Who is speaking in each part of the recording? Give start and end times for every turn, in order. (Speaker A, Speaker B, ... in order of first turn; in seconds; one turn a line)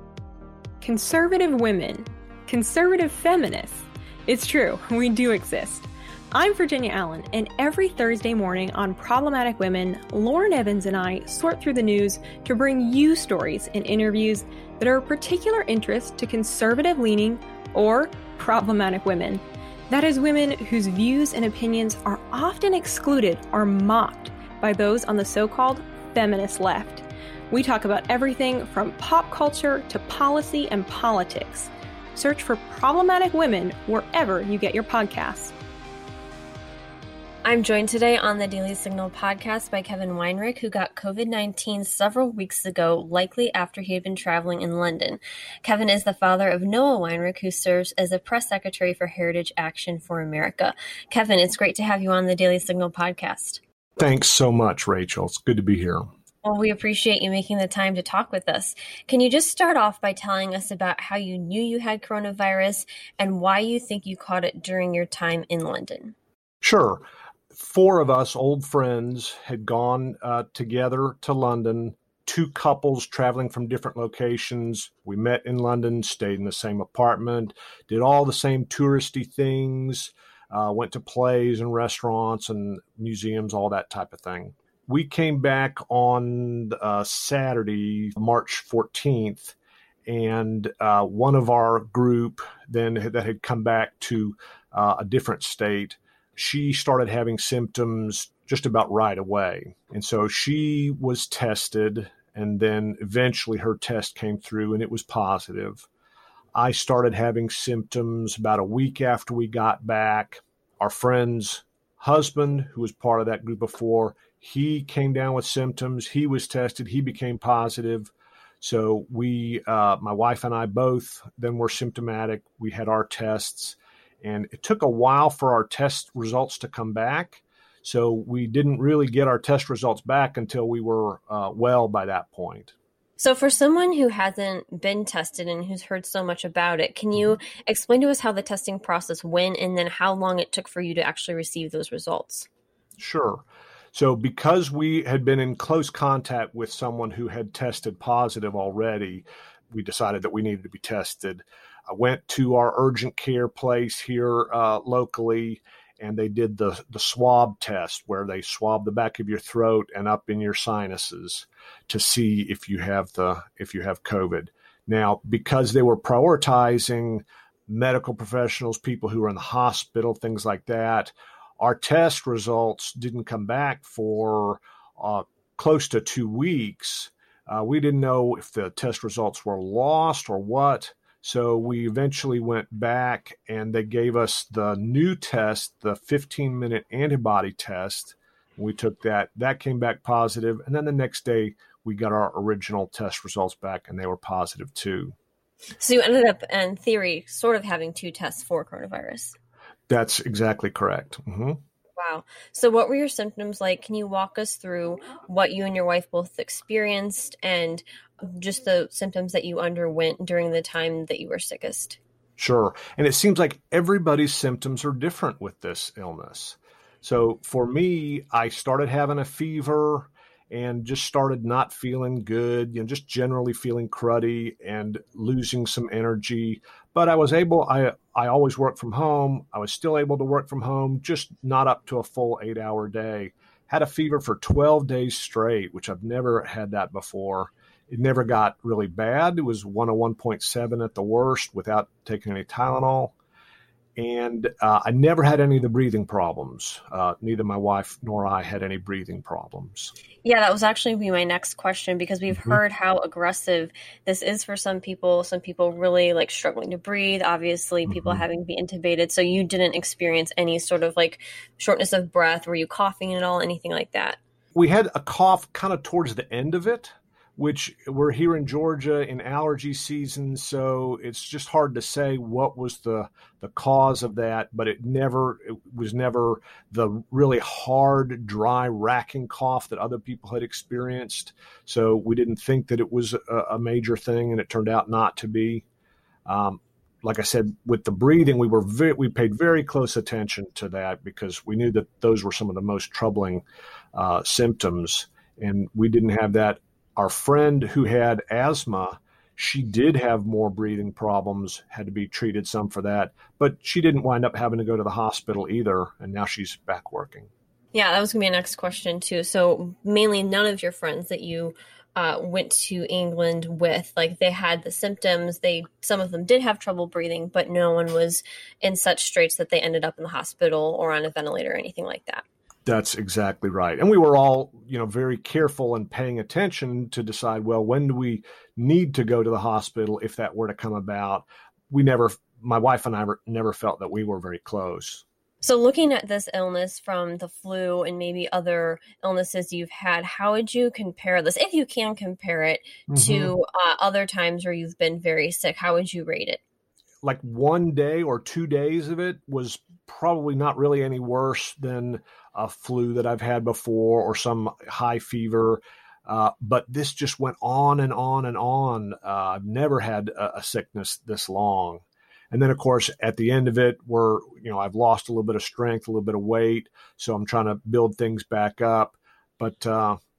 Speaker A: 0.8-35.5
Speaker B: 37.4-53.6
Speaker C: 54.0-56.1
Speaker B: 56.4-66.1
Speaker C: 66.6-89.5
Speaker C: 90.1-105.9
Speaker C: 106.5-132.7
Speaker B: 133.2-142.5
Speaker C: 143.0-143.4
Speaker C: 143.9-195.1
Speaker B: 195.8-199.3
Speaker C: 199.9-201.6
Speaker B: 202.0-212.0
Speaker C: 212.4-243.1
Speaker C: 244.0-249.9
Speaker B: 250.2-264.2
Speaker C: 252.3-252.6
Speaker C: 257.9-258.2
Speaker C: 264.5-285.6
Speaker C: 286.2-293.4
Speaker C: 293.9-307.3
Speaker B: 307.7-322.2
Speaker C: 322.6-335.0
Speaker B: 335.4-346.4
Speaker C: 342.9-343.3
Speaker C: 347.0-370.0